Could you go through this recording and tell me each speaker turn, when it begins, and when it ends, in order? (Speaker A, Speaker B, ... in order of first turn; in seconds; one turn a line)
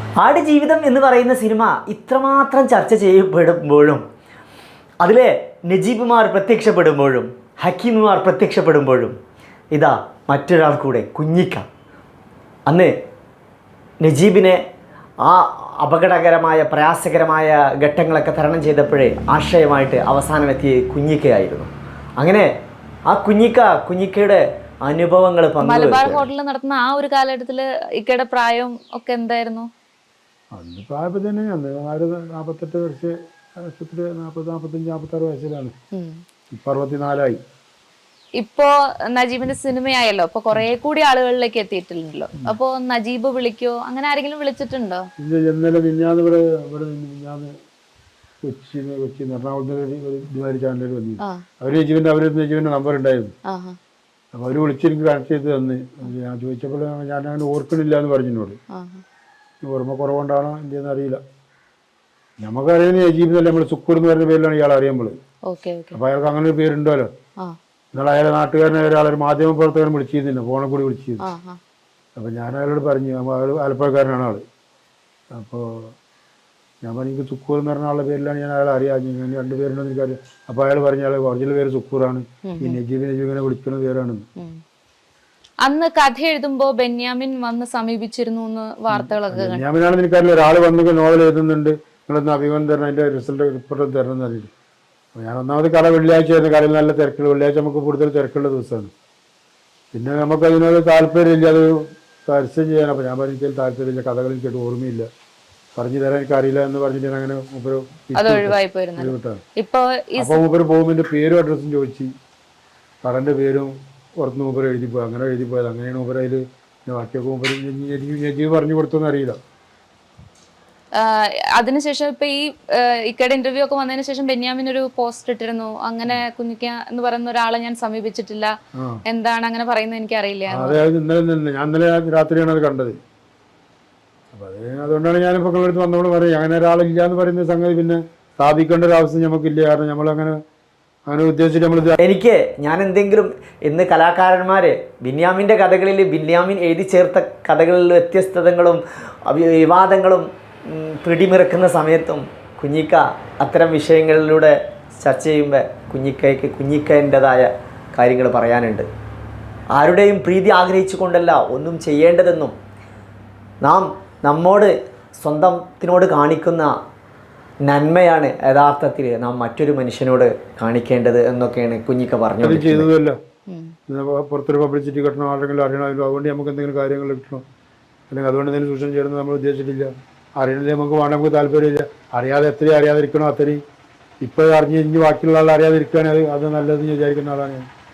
Speaker A: 0.2-4.0
Speaker A: 5.0-9.2
Speaker A: 9.7-11.7
Speaker A: 12.7-12.9
Speaker A: 14.0-14.6
Speaker A: 15.2-22.5
Speaker A: 23.1-26.3
Speaker B: 25.6-29.7
Speaker C: 30.5-35.7
Speaker B: 35.9-36.2
Speaker C: 36.5-37.4
Speaker B: 38.4-45.1
Speaker C: 45.2-47.5
Speaker C: 48.4-53.3
Speaker B: 53.5-53.8
Speaker C: 54.3-58.6
Speaker B: 58.7-59.0
Speaker C: 59.6-61.2
Speaker C: 62.4-65.2
Speaker B: 65.5-66.0
Speaker C: 65.9-67.1
Speaker C: 67.9-71.2
Speaker B: 71.2-71.6
Speaker C: 72.2-74.4
Speaker C: 75.3-75.9
Speaker C: 76.8-84.3
Speaker B: 82.5-82.8
Speaker B: 85.6-89.6
Speaker C: 88.9-94.5
Speaker C: 95.2-98.9
Speaker C: 99.9-105.1
Speaker C: 105.8-109.4
Speaker B: 108.2-110.4
Speaker C: 110.2-112.1
Speaker C: 113.0-119.4
Speaker B: 121.0-128.5
Speaker C: 128.8-129.0
Speaker B: 129.1-130.8
Speaker C: 130.5-133.0
Speaker C: 134.3-140.4
Speaker C: 141.1-142.0
Speaker A: 142.0-158.9
Speaker A: 159.7-162.5
Speaker A: 163.6-166.7
Speaker A: 167.6-172.9
Speaker C: 172.4-173.2
Speaker B: 173.5-173.8
Speaker C: 173.9-177.4
Speaker C: 178.1-183.6
Speaker C: 184.2-187.7